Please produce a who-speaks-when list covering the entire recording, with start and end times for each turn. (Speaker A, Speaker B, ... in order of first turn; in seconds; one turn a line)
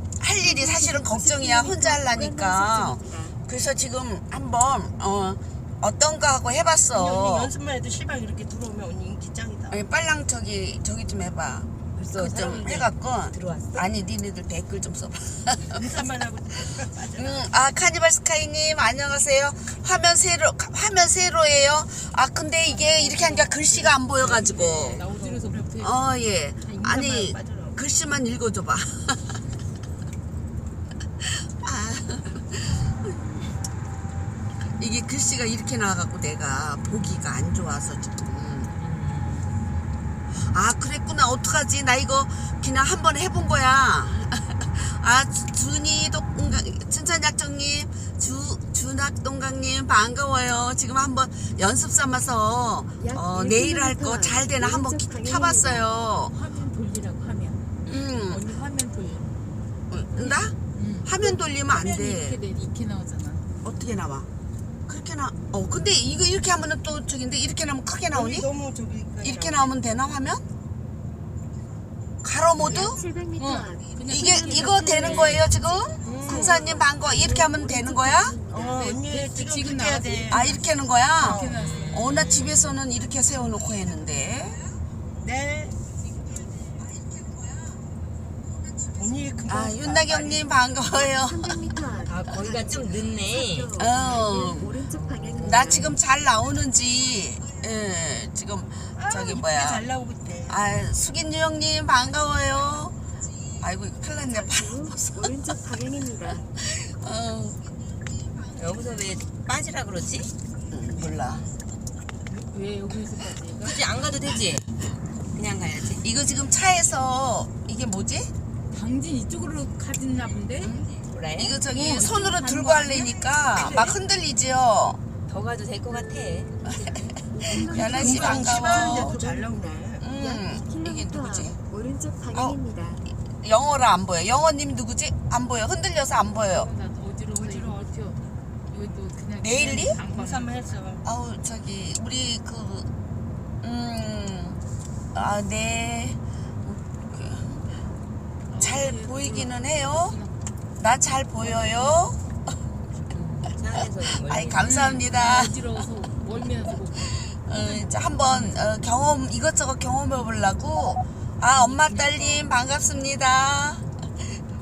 Speaker A: 0.2-7.5
Speaker B: 0.4-3.4
Speaker C: 6.9-9.8
Speaker A: 9.7-15.8
Speaker D: 11.9-13.9
Speaker C: 15.7-17.5
Speaker A: 17.2-25.1
Speaker E: 22.7-26.0
Speaker C: 24.2-25.5
Speaker A: 25.8-29.4
Speaker C: 26.6-27.8
Speaker A: 31.2-33.5
Speaker A: 34.6-38.7
Speaker D: 38.7-39.6
Speaker A: 40.5-56.4
Speaker B: 53.0-55.9
Speaker E: 56.3-59.4
Speaker A: 57.9-58.5
Speaker A: 59.9-62.4
Speaker E: 60.1-63.5
Speaker A: 63.6-64.3
Speaker A: 64.9-68.5
Speaker C: 68.1-69.7
Speaker A: 69.2-70.4
Speaker A: 72.2-73.0
Speaker D: 72.6-72.9
Speaker B: 72.7-78.9
Speaker E: 73.4-75.5
Speaker A: 74.1-78.4
Speaker C: 76.0-76.9
Speaker C: 78.5-80.5
Speaker E: 78.7-80.7
Speaker A: 80.3-84.6
Speaker C: 81.2-81.9
Speaker E: 81.2-82.3
Speaker D: 81.4-82.8
Speaker C: 85.2-85.8
Speaker C: 88.9-90.6
Speaker A: 89.5-91.7
Speaker B: 90.9-95.9
Speaker D: 92.0-95.9
Speaker A: 93.8-94.8
Speaker A: 95.4-99.8
Speaker C: 99.0-100.6
Speaker A: 100.5-103.0
Speaker A: 103.6-105.6
Speaker B: 104.3-106.5
Speaker A: 106.5-107.6
Speaker D: 108.5-110.3
Speaker A: 110.7-111.5
Speaker E: 112.3-113.9
Speaker D: 113.6-114.7
Speaker D: 115.3-116.1
Speaker A: 116.0-118.3
Speaker E: 118.7-120.8
Speaker A: 120.6-125.0
Speaker D: 121.0-121.6
Speaker E: 121.7-123.2
Speaker C: 123.5-123.9
Speaker D: 123.6-123.9
Speaker D: 125.3-127.1
Speaker A: 126.7-127.0
Speaker B: 127.3-133.0
Speaker E: 127.5-128.5
Speaker A: 127.5-129.2
Speaker C: 127.7-130.0
Speaker A: 130.0-131.6
Speaker A: 132.3-136.7
Speaker E: 136.3-140.8
Speaker C: 137.3-137.8
Speaker A: 139.4-140.0
Speaker C: 139.8-141.1
Speaker A: 141.0-142.9
Speaker A: 143.6-144.6
Speaker A: 145.1-147.9
Speaker E: 148.5-150.5
Speaker A: 148.6-150.1
Speaker A: 150.8-152.2
Speaker E: 151.4-152.1
Speaker D: 153.1-154.7
Speaker A: 154.2-155.8
Speaker E: 154.6-158.6
Speaker A: 157.1-163.9
Speaker E: 161.5-162.5